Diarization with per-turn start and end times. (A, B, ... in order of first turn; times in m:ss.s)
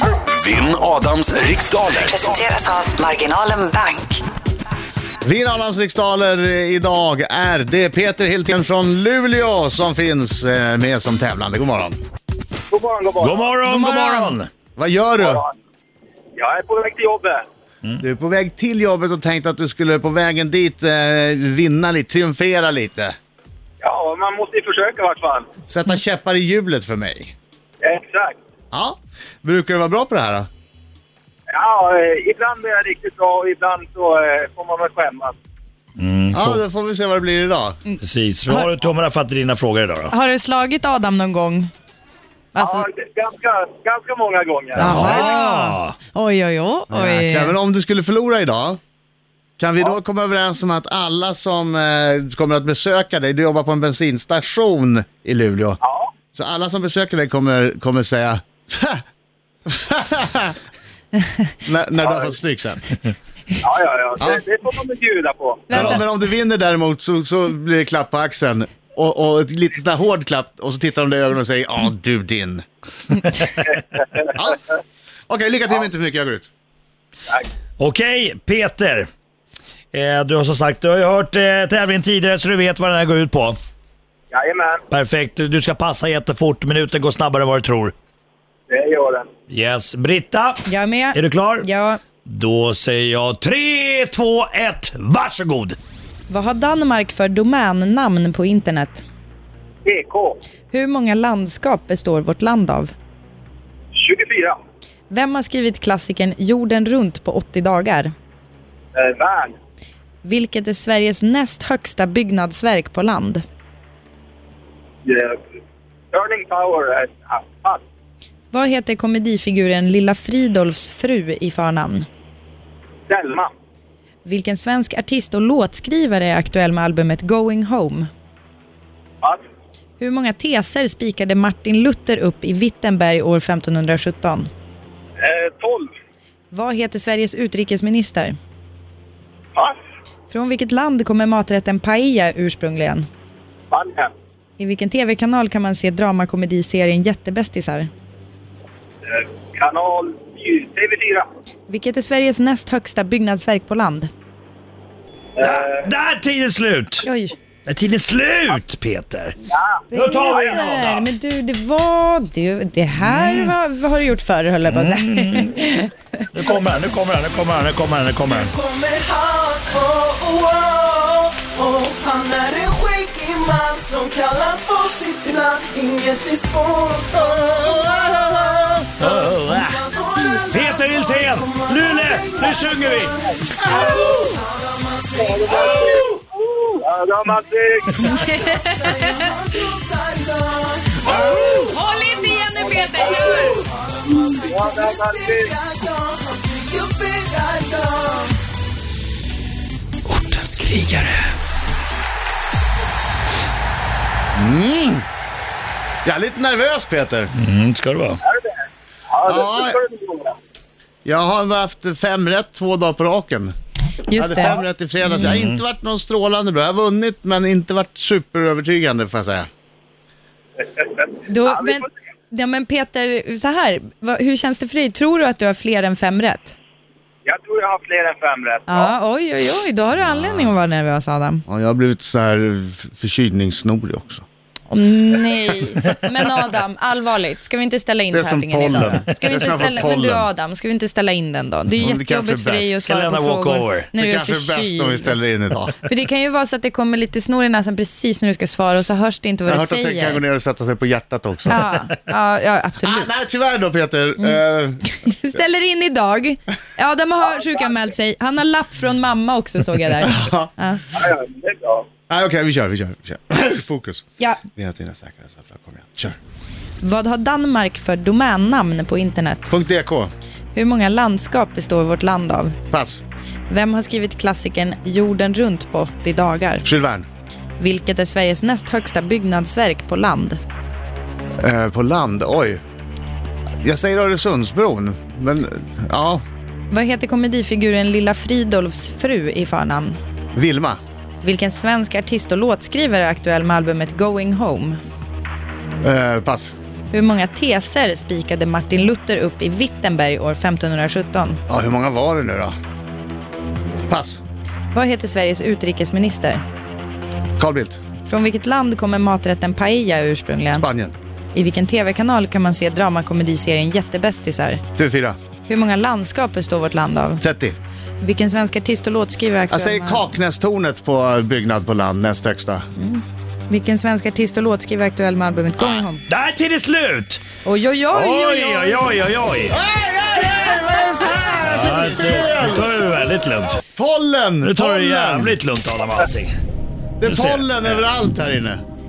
0:00.3-0:02.4 A
0:02.0-0:04.2 B
0:05.2-0:12.0 C
0:12.7-0:13.6 D
0:13.2-0:14.5 E
0:13.7-0:14.4 F
0:14.8-0:15.4 C
0:15.2-0:15.5 D
0:16.4-0:17.4 D
0:18.0-0:23.1 C
0:23.8-0:25.5 D
0:25.7-0:27.4 C
0:27.8-0:28.4 D
0:28.7-0:30.5 C
0:31.5-0:35.4 D
0:36.0-0:36.6 E
0:36.3-0:37.8 C
0:37.9-0:38.7 F
0:38.0-0:40.1 E
0:40.1-0:41.7 F
0:42.5-0:42.8 F
0:42.6-0:45.0 D
0:44.8-0:46.0 E
0:44.8-0:47.6 F
0:44.9-0:45.3 C
0:46.9-0:48.8 C
0:49.6-0:55.8 C
0:55.8-0:56.1 D
0:56.3-0:59.0 C
0:59.7-1:00.6 C
1:01.6-1:03.0 C
1:02.0-1:02.3 D
1:03.6-1:05.7 D
1:05.7-1:06.0 F
1:05.7-1:12.6 C
1:13.9-1:14.3 D
1:14.3-1:14.6 C
1:15.3-1:16.5 C
1:17.8-1:19.1 E
1:19.9-1:23.6 E
1:24.3-1:24.8 D
1:24.9-1:27.9 E
1:28.7-1:29.3 D
1:29.5-1:31.7 E
1:30.7-1:32.0 F
1:32.2-1:35.8 E
1:36.3-1:39.0 F
1:39.8-1:40.4 D
1:40.7-1:42.9 F
1:43.9-1:44.6 D
1:45.1-1:48.1 F
1:49.0-1:49.6 D
1:50.2-1:53.4 F
1:55.0-1:55.4 D
1:56.1-1:57.8 D
1:58.5-2:02.1 F
2:03.1-2:03.5 D
2:04.2-2:08.1 F
2:10.0-2:14.5 F
2:15.2-2:15.9 D
2:16.5-2:18.4 F
2:20.3-2:23.1 F
2:23.7-2:24.1 D
2:24.6-2:27.9 F
2:29.1-2:31.3 D
2:31.7-2:34.1 F
2:35.4-2:35.9 D
2:35.4-2:37.1 E
2:37.0-2:37.4 F
2:37.7-2:39.4 E
2:39.5-2:40.6 D
2:39.9-2:46.3 F
2:39.9-2:41.1 E
2:43.0-2:43.5 E
2:44.7-2:45.6 E
2:46.3-2:48.5 E
2:48.4-2:58.4 G
2:57.2-2:58.9 C
2:59.0-3:03.2 E
2:59.5-3:00.8 G
3:01.4-3:05.3 G
3:03.7-3:04.0 C
3:05.2-3:08.1 D
3:08.0-3:09.3 F
3:08.1-3:18.4 G
3:11.1-3:13.6 F
3:13.0-3:13.5 D
3:14.3-3:15.5 D
3:20.1-3:21.2 E
3:24.4-3:25.0 C
3:26.0-3:27.3 C
3:27.4-3:28.2 E
3:28.2-3:30.4 D
3:29.3-3:29.8 C
3:31.0-3:33.5 C
3:34.1-3:34.6 F
3:34.2-3:39.5 C
3:35.0-3:35.6 E
3:40.6-3:41.9 D
3:41.3-3:46.6 F
3:47.3-3:48.9 D
3:48.7-3:51.4 F
3:51.5-3:54.3 C
3:54.7-4:05.2 F
3:58.1-4:00.3 C
4:01.7-4:02.8 C
4:02.8-4:03.9 E
4:03.9-4:05.8 C
4:05.8-4:10.2 F
4:09.5-4:11.7 C
4:11.5-4:13.1 F
4:12.8-4:14.9 C
4:14.2-4:20.9 F
4:20.0-4:20.5 C
4:20.9-4:21.9 D
4:22.1-4:26.2 C
4:26.8-4:29.5 F
4:29.5-4:30.1 C
4:30.5-4:32.6 F
4:32.7-4:33.0 C
4:33.5-4:36.7 F
4:36.6-4:37.1 C
4:37.6-4:40.4 F
4:41.4-4:42.6 C
4:43.6-4:46.2 C
4:46.7-4:50.0 F
4:50.4-4:50.8 C
4:51.2-4:54.8 F
4:55.8-4:56.5 C
4:56.9-5:01.4 F
5:01.5-5:02.6 C
5:03.9-5:04.2 C
5:04.7-5:06.4 F
5:07.4-5:07.8 C
5:08.1-5:10.7 F
5:10.5-5:11.0 C
5:11.3-5:14.6 F
5:14.8-5:15.2 C
5:15.5-5:17.2 F
5:17.2-5:17.6 C
5:18.0-5:20.0 F
5:19.5-5:22.6 C
5:22.8-5:26.0 F
5:25.6-5:27.2 E
5:27.4-5:28.8 F
5:27.9-5:29.6 E
5:29.5-5:32.8 C
5:31.4-5:33.6 E
5:33.7-5:35.4 C
5:34.4-5:36.3 E
5:37.0-5:38.6 C
5:37.0-5:37.8 E